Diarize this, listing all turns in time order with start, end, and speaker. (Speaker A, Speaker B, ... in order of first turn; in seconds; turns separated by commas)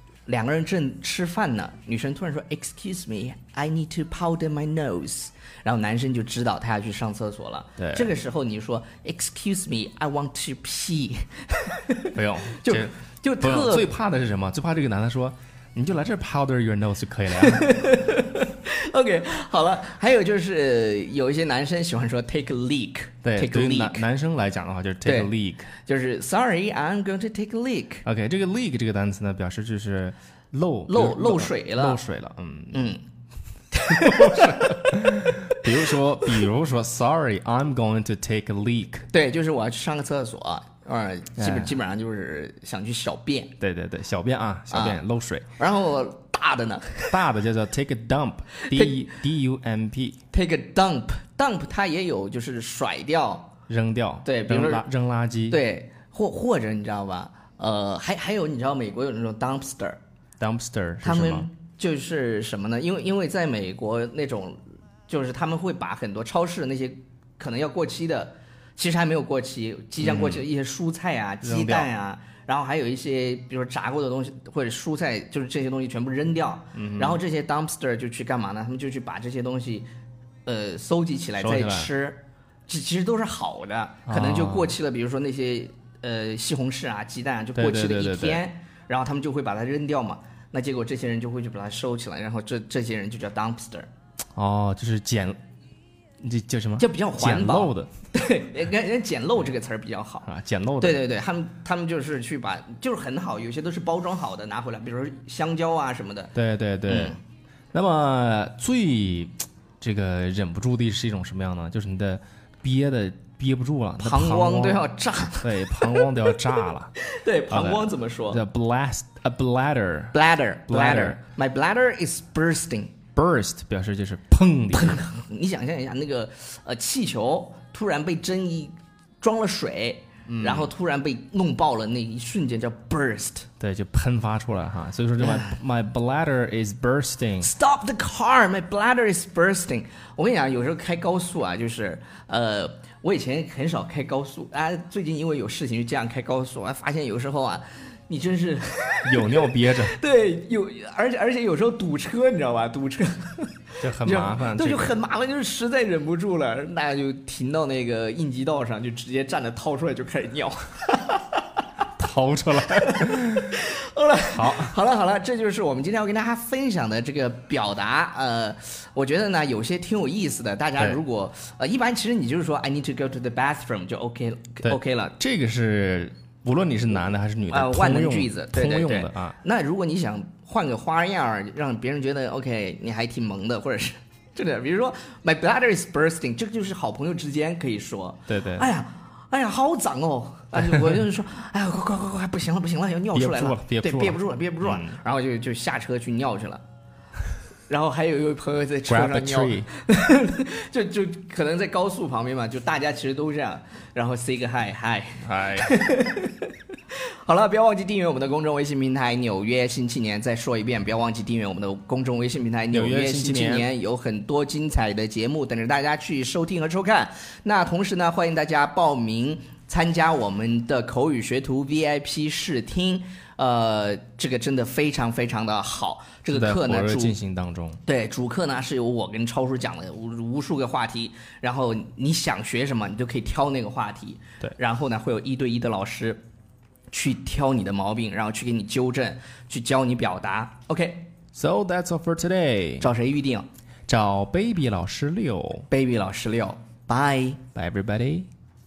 Speaker A: 0.3-13.9, Speaker B: 7.8-8.1, Speaker B: 12.2-17.9, Speaker A: 17.4-24.1, Speaker B: 23.2-25.7, Speaker A: 25.0-28.1, Speaker B: 28.1-32.9, Speaker A: 30.9-32.0, Speaker A: 32.7-33.0, Speaker A: 33.7-35.6, Speaker B: 34.0-39.1, Speaker A: 39.1-43.5, Speaker B: 41.4-41.7, Speaker B: 43.6-45.5, Speaker A: 44.7-45.0, Speaker A: 45.6-47.2, Speaker B: 47.1-50.2, Speaker A: 48.7-49.0, Speaker A: 50.3-53.5, Speaker B: 53.7-55.6, Speaker A: 54.2-54.9, Speaker A: 55.5-60.0, Speaker B: 60.4-61.5, Speaker A: 61.0-79.9, Speaker B: 70.0-70.5, Speaker B: 71.4-71.9, Speaker B: 76.8-77.2, Speaker A: 80.5-93.9, Speaker B: 81.4-81.9, Speaker B: 84.1-84.8, Speaker B: 87.5-88.4, Speaker B: 94.3-95.4, Speaker B: 96.2-97.9, Speaker A: 96.8-100.3, Speaker B: 100.2-101.0, Speaker A: 100.8-106.3, Speaker B: 106.3-107.2, Speaker A: 106.9-107.2, Speaker B: 107.7-114.9, Speaker A: 114.0-116.1, Speaker B: 115.4-116.9, Speaker A: 117.0-118.4, Speaker B: 117.5-121.2, Speaker A: 120.1-122.9, Speaker B: 123.2-125.0, Speaker A: 124.7-133.5, Speaker B: 130.3-130.7, Speaker B: 133.6-137.5, Speaker A: 135.2-135.6, Speaker A: 137.4-161.4, Speaker B: 149.0-149.9, Speaker B: 153.8-154.9, Speaker B: 162.0-163.5, Speaker A: 163.5-175.2, Speaker B: 164.3-164.8, Speaker B: 174.6-179.3, Speaker A: 177.5-196.6, Speaker B: 188.3-188.7, Speaker B: 193.1-195.0, Speaker A: 197.7-206.5, Speaker B: 198.9-199.7, Speaker B: 205.2-205.7, Speaker A: 207.2-227.2, Speaker B: 212.7-213.7, Speaker B: 226.3-227.8, Speaker A: 227.9-236.2, Speaker A: 236.9-241.1, Speaker B: 241.3-242.9, Speaker A: 242.8-243.5, Speaker B: 243.9-245.7, Speaker A: 245.7-247.4, Speaker B: 247.6-248.3